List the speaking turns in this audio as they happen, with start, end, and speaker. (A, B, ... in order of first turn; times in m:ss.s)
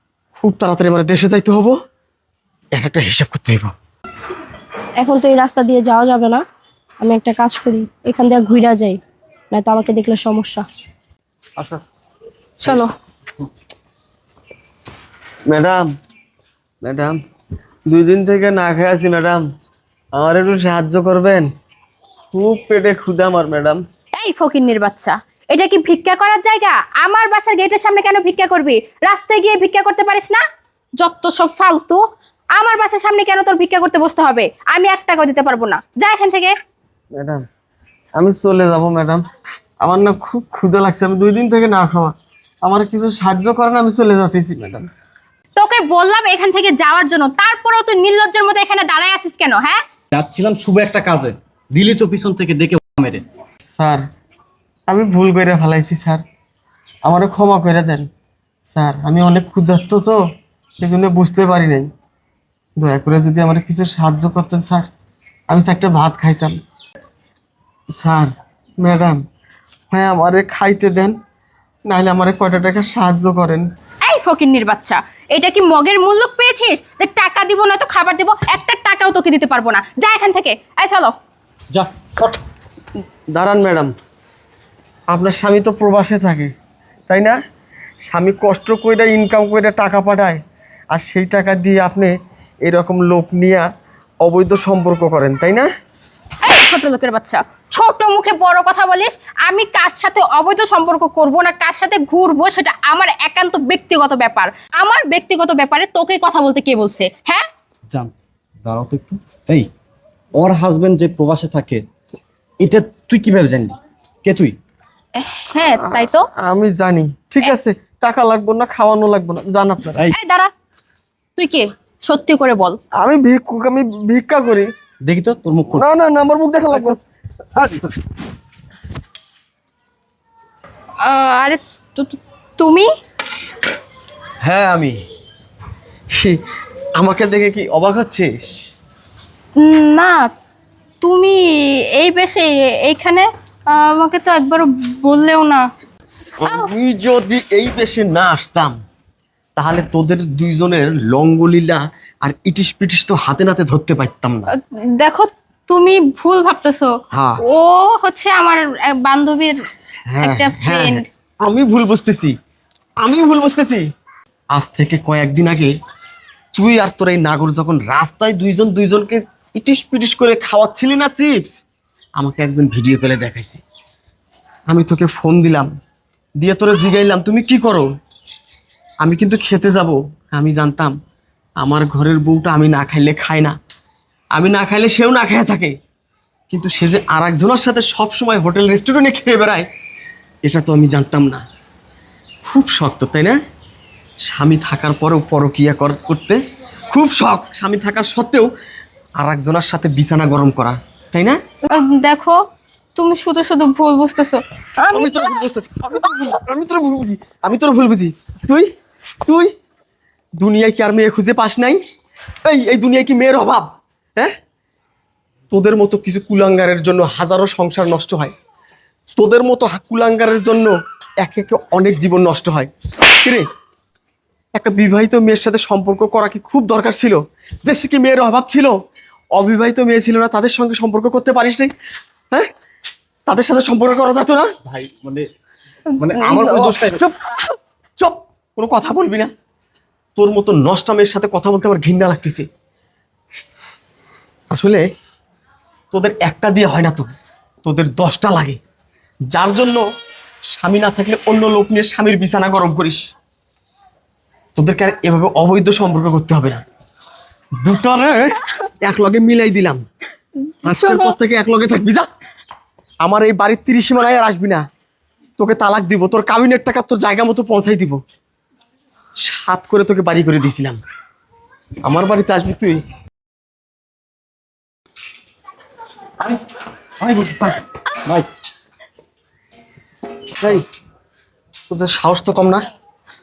0:00.4-0:01.8 A
0:02.7-0:03.7 A
0:05.0-0:06.4 B
0:07.0-0:09.0 B
0:09.5-0:10.6 B
0:15.5-0:15.8 A
0:16.8-0:17.1 A
0:17.9-0:19.4 A
0:20.2-0:21.4 A
0:22.3-0:23.8 A
0:24.1-0:30.4 C
0:31.0-0:32.0 C
0:32.6-0:36.5 C
0:37.2-0:37.4 A
0:38.2-0:39.2 A
0:39.8-0:44.9 A
0:45.6-0:49.8 C
0:50.1-0:53.2 D
0:53.8-0:54.0 A
0:54.9-0:56.2 A
0:57.0-0:58.0 A
0:58.7-1:00.2 A
1:00.8-1:01.9 A
1:02.8-1:04.9 A
1:05.5-1:06.6 A
1:08.0-1:09.2 A
1:09.9-1:11.1 A
1:11.9-1:13.6 A
1:14.0-1:21.1 C
1:21.7-1:22.4 D
1:23.3-1:23.9 A
1:25.1-1:26.5 A
1:27.1-1:27.4 A
1:28.1-1:30.4 A
1:30.9-1:32.1 A
1:32.6-1:33.6 A
1:34.2-1:35.7 A
1:36.4-1:47.4 C
1:48.6-1:49.7 D
1:50.4-1:51.8 D
1:52.6-1:54.5 D
1:55.4-1:56.3 C
1:55.9-2:00.0 A
2:00.1-2:00.5 C
2:01.4-2:02.8 C
2:03.0-2:04.7 A
2:05.0-2:05.8 D
2:05.7-2:07.0 A
2:11.0-2:12.9 C
2:14.4-2:15.0 A
2:17.0-2:18.6 A
2:19.6-2:20.2 C
2:21.0-2:21.4 C
2:22.0-2:25.6 C
2:26.4-2:28.7 A
2:29.6-2:34.5 A
2:35.0-2:36.9 C
2:37.1-2:37.4 A
2:37.4-2:39.5 C
2:40.1-2:42.3 A
2:40.2-2:41.0 C
2:43.0-2:43.8 A
2:44.5-2:45.7 A
2:46.5-2:51.6 A
2:52.2-2:53.6 A
2:54.7-2:55.7 A
2:56.4-2:57.9 A
2:59.0-3:00.9 A
3:01.6-3:03.5 A
3:04.3-3:05.7 A
3:06.5-3:09.6 A
3:10.4-3:11.4 A
3:12.4-3:13.4 A
3:14.2-3:18.5 A
3:19.2-3:21.4 A
3:21.7-3:22.4 C
3:23.0-3:25.4 C
3:24.9-3:28.7 A
3:29.2-3:29.5 A
3:30.4-3:31.8 A
3:32.4-3:34.3 A
3:35.5-3:38.3 A
3:39.2-3:43.4 A
3:44.6-3:48.7 A
3:49.3-3:51.7 A
3:53.2-3:54.5 A
3:54.6-3:55.2 D
3:55.9-3:56.9 C
3:56.0-3:57.0 D
3:57.0-3:57.4 A
3:58.0-3:59.3 A
4:00.2-4:02.4 A
4:04.5-4:04.8 A
4:05.9-4:07.1 A
4:07.6-4:08.6 A
4:09.3-4:09.8 A
4:10.5-4:13.0 A
4:14.5-4:16.6 A
4:17.6-4:19.8 A
4:20.4-4:21.1 C
4:20.6-4:22.1 A
4:23.0-4:24.6 A
4:25.4-4:28.0 A
4:29.2-4:30.8 A
4:31.8-4:32.8 A
4:37.0-4:38.3 D
4:41.7-4:42.7 A